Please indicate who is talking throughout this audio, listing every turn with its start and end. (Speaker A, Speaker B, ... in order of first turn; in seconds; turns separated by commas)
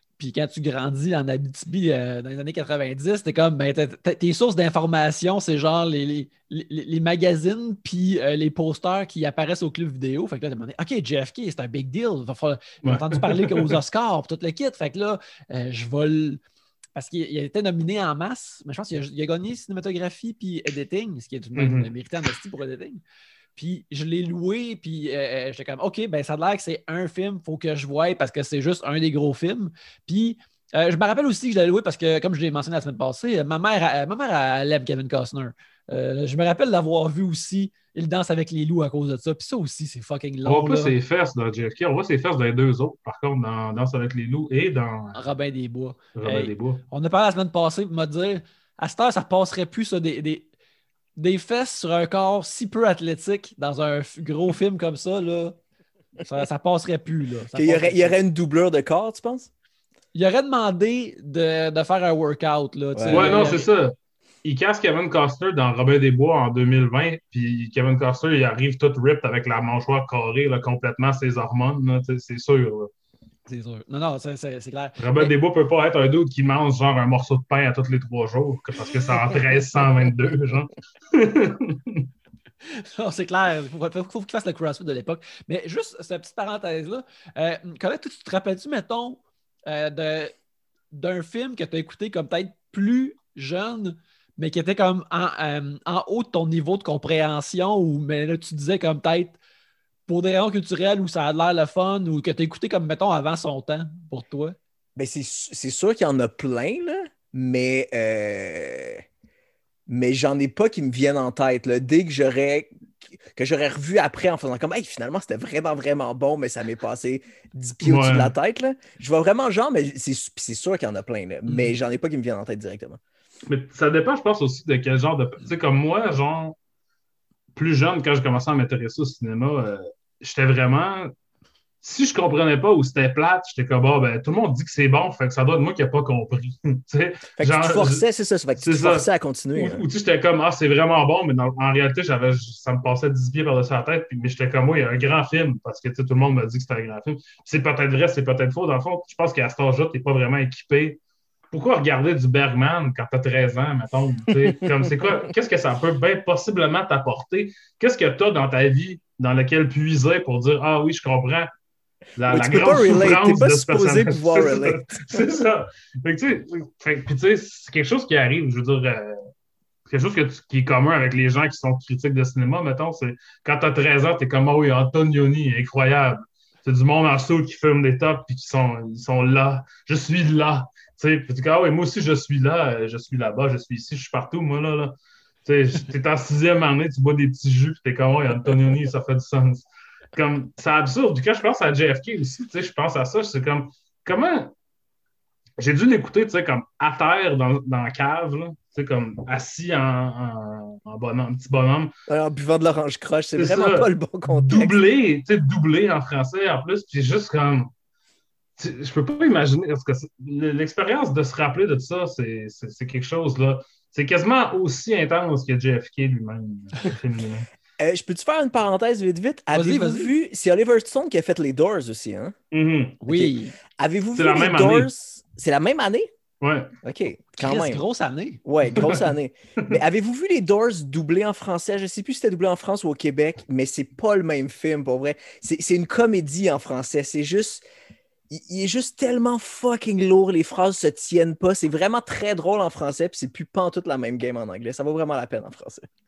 Speaker A: 0.2-16.4, Speaker B: 12.8-13.8, Speaker A: 16.9-23.0, Speaker B: 21.6-21.9, Speaker A: 23.6-41.0, Speaker B: 40.5-45.2, Speaker A: 45.1-50.5, Speaker B: 46.2-46.8, Speaker A: 51.2-55.6, Speaker A: 56.2-58.2, Speaker C: 57.5-59.5, Speaker A: 60.1-63.7, Speaker C: 62.9-63.4, Speaker B: 63.1-72.9, Speaker A: 73.5-75.3, Speaker B: 75.0-82.1, Speaker A: 82.7-90.3, Speaker A: 90.9-99.4, Speaker A: 100.1-104.6, Speaker C: 105.0-109.0, Speaker C: 109.9-123.0, Speaker B: 117.8-118.3, Speaker A: 121.5-121.8, Speaker B: 123.5-126.6, Speaker B: 127.5-131.1, Speaker B: 131.8-138.0, Speaker C: 137.4-139.8, Speaker B: 138.6-151.0, Speaker B: 151.5-161.5, Speaker B: 162.2-169.2, Speaker C: 162.3-165.2, Speaker B: 169.9-194.5, Speaker B: 195.6-201.9, Speaker C: 202.1-204.8, Speaker B: 203.4-207.7, Speaker B: 208.6-217.5, Speaker C: 217.8-222.3, Speaker A: 219.5-220.1, Speaker B: 222.5-223.0, Speaker A: 223.0-223.6, Speaker C: 223.1-226.1, Speaker B: 224.2-224.9, Speaker B: 226.4-226.7, Speaker C: 226.8-227.8, Speaker A: 227.4-228.4, Speaker C: 228.4-237.6, Speaker C: 238.3-245.9